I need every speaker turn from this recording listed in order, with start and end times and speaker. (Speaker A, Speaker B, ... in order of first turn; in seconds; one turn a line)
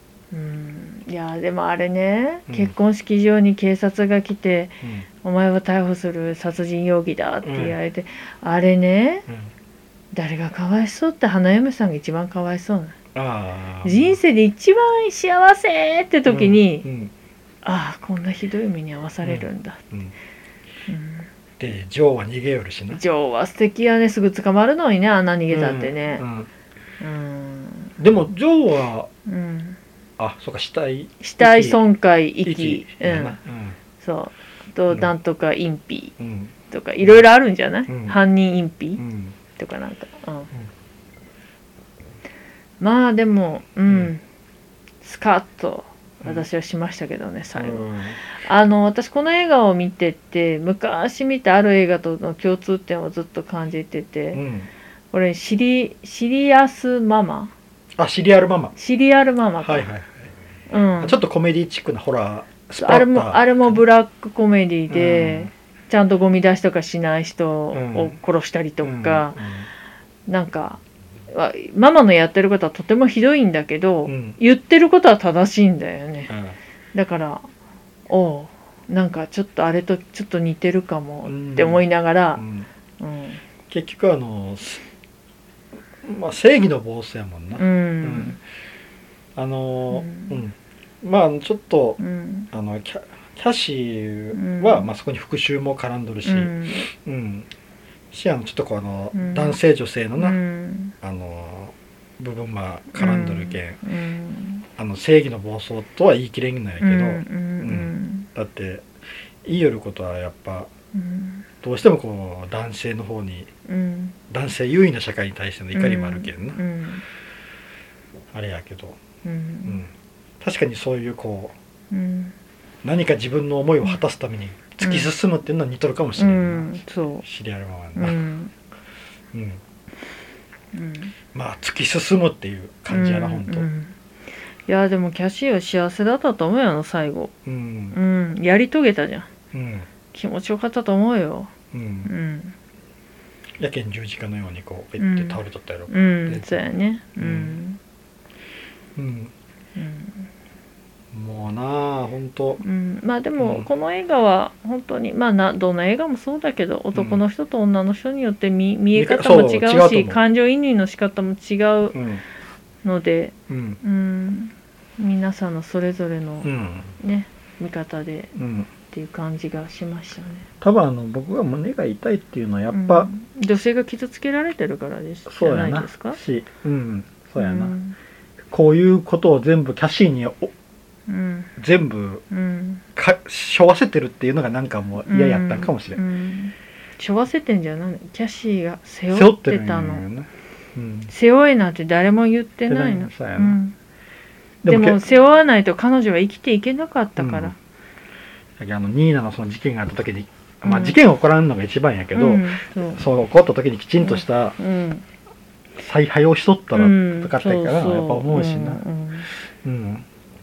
Speaker A: 0.3-9.3
Speaker B: 2.5-2.7
Speaker B: 4.8-5.1
Speaker B: 7.4-7.8
Speaker A: 10.1-12.9
Speaker B: 13.1-14.2
Speaker A: 13.8-16.9
Speaker B: 16.3-17.1
Speaker A: 17.6-19.8
Speaker B: 19.2-20.1
Speaker A: 20.9-21.3
Speaker B: 21.6-23.0
Speaker A: 22.9-26.2
Speaker B: 25.5-26.5
Speaker A: 27.0-27.9
Speaker B: 28.0-29.1
Speaker A: 29.2-29.8
Speaker B: 30.2-31.8
Speaker A: 31.2-33.4
Speaker B: 32.4-33.8
Speaker A: 34.0-36.1
Speaker B: 36.2-36.5
Speaker A: 36.7-39.0
Speaker B: 37.9-38.2
Speaker B: 39.0-39.3
Speaker A: 39.5-40.5
Speaker A: 42.8-44.2
Speaker A: 45.0-54.4
Speaker B: 47.5-48.2
Speaker B: 54.3-54.7
Speaker A: 55.1-57.5
Speaker B: 58.0-58.7
Speaker A: 58.8-59.9
Speaker B: 59.6-60.3
Speaker A: 60.7-61.2
Speaker B: 61.0-63.8
Speaker A: 62.8-69.4
Speaker B: 64.9-65.5
Speaker B: 67.7-68.2
Speaker B: 68.8-69.7
Speaker A: 70.3-76.3
Speaker B: 74.1-74.4
Speaker B: 76.3-76.6
Speaker A: 76.9-77.5
Speaker A: 78.1-82.4
Speaker B: 81.2-82.7
Speaker A: 83.0-83.4
Speaker B: 83.7-84.8
Speaker B: 86.0-88.4
Speaker A: 87.6-88.4
Speaker B: 89.3-92.0
Speaker A: 89.9-90.4
Speaker A: 92.0-92.5
Speaker B: 92.5-97.5
Speaker A: 94.3-94.9
Speaker A: 96.2-96.8
Speaker B: 98.1-100.4
Speaker A: 99.1-99.6
Speaker A: 100.2-100.9
Speaker B: 101.0-103.8
Speaker A: 102.9-104.7
Speaker B: 104.8-108.9
Speaker A: 106.8-108.3
Speaker B: 109.4-110.7
Speaker A: 110.9-111.5
Speaker B: 111.6-113.5
Speaker A: 113.7-114.2
Speaker B: 114.3-116.6
Speaker A: 115.7-117.0
Speaker B: 118.3-119.0
Speaker A: 119.2-119.8
Speaker B: 120.4-121.5
Speaker A: 121.9-122.3
Speaker B: 122.8-126.7
Speaker A: 124.8-125.1
Speaker A: 126.2-127.2
Speaker B: 127.2-128.2
Speaker A: 128.0-128.5
Speaker B: 129.3-129.6
Speaker A: 130.7-131.1
Speaker B: 131.3-133.7
Speaker A: 132.9-133.9
Speaker A: 134.7-137.3
Speaker B: 137.4-137.9
Speaker A: 137.9-139.3
Speaker B: 139.5-139.9
Speaker A: 140.1-141.5
Speaker B: 141.7-142.1
Speaker A: 142.0-142.5
Speaker B: 143.6-147.6
Speaker A: 145.0-145.4
Speaker A: 145.9-147.8
Speaker B: 148.9-149.3
Speaker A: 149.8-150.3
Speaker B: 151.1-152.6
Speaker A: 152.6-162.0
Speaker B: 153.4-153.7
Speaker B: 156.9-157.2
Speaker B: 158.9-160.2
Speaker B: 161.9-162.2
Speaker A: 162.8-168.3
Speaker B: 163.5-163.8
Speaker B: 166.4-166.9
Speaker B: 168.3-168.7
Speaker A: 168.9-170.5
Speaker B: 170.6-173.1
Speaker A: 172.7-176.2
Speaker B: 175.3-177.8
Speaker A: 177.4-177.9
Speaker B: 178.5-180.5
Speaker A: 181.1-181.5
Speaker B: 181.6-182.2
Speaker A: 182.3-182.8
Speaker B: 182.9-186.0
Speaker A: 185.0-190.0
Speaker B: 189.1-191.1
Speaker A: 191.1-193.7
Speaker B: 192.7-193.6
Speaker A: 194.6-197.6
Speaker B: 194.6-195.0
Speaker B: 197.2-197.5
Speaker B: 198.6-204.6
Speaker A: 200.6-201.0
Speaker A: 202.1-203.0
Speaker A: 204.0-205.0
Speaker B: 205.8-208.8
Speaker A: 206.7-209.3
Speaker B: 209.6-210.1